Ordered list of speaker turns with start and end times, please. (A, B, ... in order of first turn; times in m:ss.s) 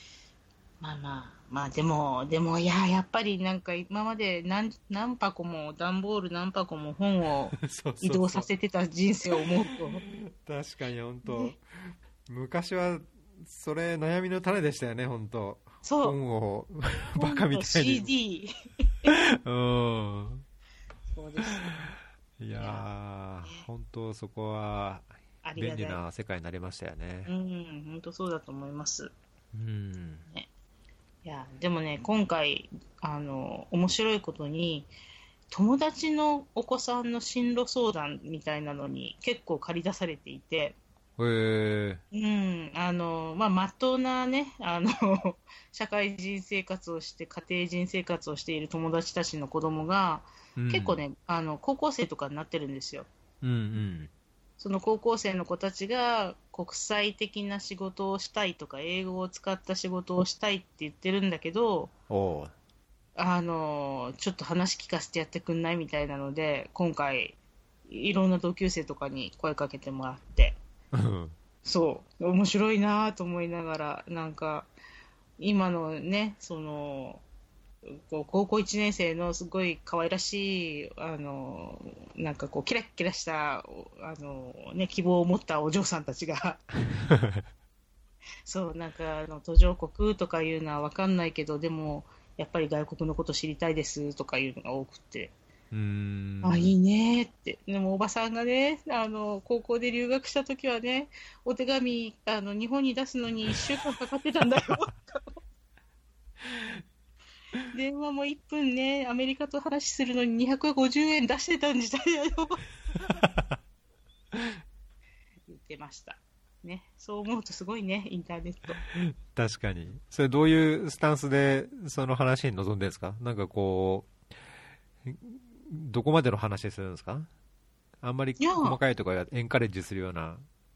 0:00.8-0:10.0 A
0:07.6-0:08.5 B
0:09.7-0:18.1 B
0:11.2-0:11.6 A
0:15.8-0:16.2 A
0:17.2-0:18.5 A
0:19.1-0:20.4 B
0:21.1-0:21.9 A
0:21.4-0:21.9 B
0:22.4-0:27.3 B
0:22.6-0:22.9 A
0:25.4-0:26.0 A
0:27.3-0:29.1 A
0:29.5-0:30.3 B
0:31.2-0:34.9 A
0:35.5-0:40.8 A
0:41.2-0:42.0 B
0:42.1-0:53.1 A
0:50.6-0:51.0 B
0:53.4-0:54.1 B
0:54.6-1:01.9 A
1:02.1-1:02.5 B
1:03.2-1:07.4 A
1:07.9-1:10.6 A
1:10.9-1:11.4 B
1:11.6-1:14.7 A
1:15.4-1:17.2 A
1:17.8-1:26.6 A
1:27.0-1:27.4 B
1:28.5-1:35.3 A
1:35.7-1:36.7 B
1:36.4-1:45.4 A
1:46.6-1:46.8 B
1:47.7-1:52.6 A
1:53.0-1:53.6 B
1:55.5-1:58.8 A
1:58.9-2:04.1 B
2:05.0-2:07.3 B
2:08.0-2:10.5 B
2:08.4-2:08.8 A